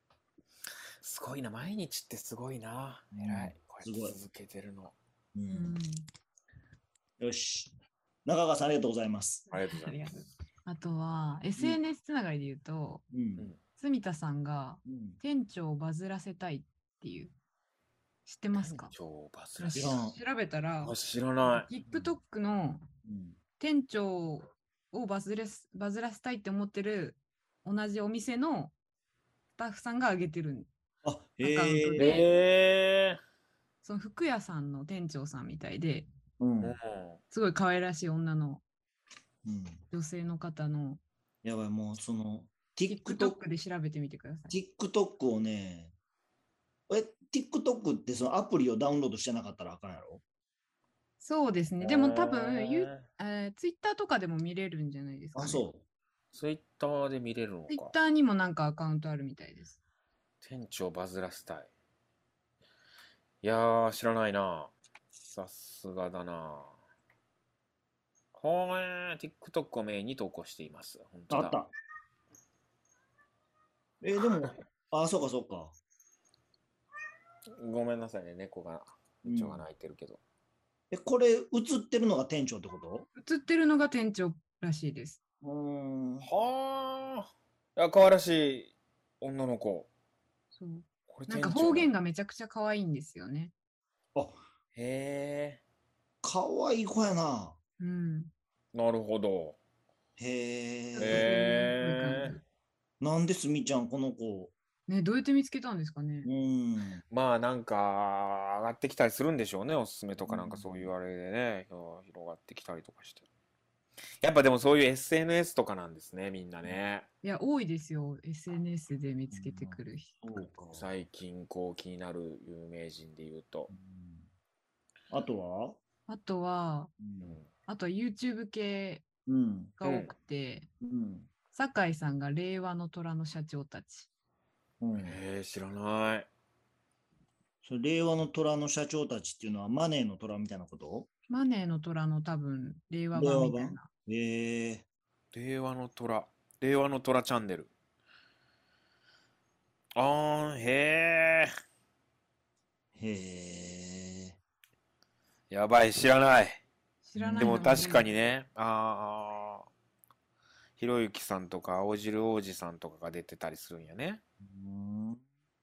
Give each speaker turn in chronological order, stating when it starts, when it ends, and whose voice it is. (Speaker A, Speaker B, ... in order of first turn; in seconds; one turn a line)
Speaker A: 1.0-4.9
Speaker B: 3.1-4.2
Speaker B: 5.3-5.8
Speaker C: 5.5-6.0
Speaker B: 7.2-7.7
Speaker B: 8.2-9.4
Speaker A: 9.5-10.0
Speaker C: 9.5-13.0
Speaker B: 13.1-13.5
Speaker C: 13.8-17.3
Speaker B: 14.8-15.2
Speaker C: 18.2-18.9
Speaker A: 18.5-19.9
Speaker C: 19.6-20.9
Speaker B: 19.7-20.1
Speaker A: 20.8-21.7
Speaker C: 21.4-22.8
Speaker B: 23.0-23.4
Speaker C: 23.6-28.7
Speaker C: 29.6-30.7
Speaker B: 31.0-32.2
Speaker C: 31.4-32.3
Speaker A: 32.0-33.2
Speaker C: 33.8-36.1
Speaker B: 36.4-36.8
Speaker A: 36.6-37.2
Speaker C: 37.3-38.6
Speaker B: 39.4-39.8
Speaker C: 39.9-41.0
Speaker B: 41.4-43.4
Speaker C: 42.9-44.5
Speaker B: 44.5-45.9
Speaker B: 46.9-50.2
Speaker C: 51.2-55.6
Speaker A: 51.8-53.0
Speaker B: 55.3-55.8
Speaker A: 56.3-57.9
Speaker C: 57.7-59.8
Speaker A: 60.4-61.7
Speaker A: 63.4-64.7
Speaker A: 65.3-66.8
Speaker A: 68.3-71.6
Speaker B: 71.3-71.7
Speaker B: 74.0-75.8
Speaker A: 77.5-80.2
Speaker B: 79.2-79.6
Speaker B: 80.9-83.1
Speaker C: 83.2-85.2
Speaker B: 85.4-86.3
Speaker A: 86.2-89.9
Speaker C: 90.5-93.5
Speaker A: 91.1-91.9
Speaker A: 94.7-95.6
Speaker B: 96.2-97.6
Speaker C: 97.8-98.3
Speaker A: 98.7-99.6
Speaker B: 100.2-101.3
Speaker C: 101.0-102.4
Speaker A: 101.0-102.3
Speaker B: 103.0-104.5
Speaker C: 104.9-106.3
Speaker B: 106.2-107.0
Speaker A: 107.1-113.2
Speaker B: 110.2-110.9
Speaker A: 114.2-117.1
Speaker C: 117.2-120.2
Speaker B: 119.3-120.9
Speaker A: 120.7-123.7
Speaker B: 123.7-124.3
Speaker B: 125.1-125.8
Speaker C: 126.1-126.9
Speaker B: 127.0-127.4
Speaker A: 127.2-127.5
Speaker C: 127.7-129.0
Speaker B: 129.3-129.7
Speaker C: 129.8-130.7
Speaker A: 129.8-130.1
Speaker B: 130.8-131.3
Speaker C: 131.5-134.1
Speaker B: 134.8-135.2
Speaker A: 135.0-136.3
Speaker B: 137.6-141.1
Speaker C: 141.3-143.9
Speaker B: 143.1-144.8
Speaker A: 145.3-147.7
Speaker A: 149.9-151.5
Speaker B: 152.9-154.4
Speaker A: 155.5-156.6
Speaker C: 157.0-158.1
Speaker B: 157.2-157.8
Speaker A: 157.4-159.7
Speaker A: 160.8-164.2
Speaker B: 164.4-165.2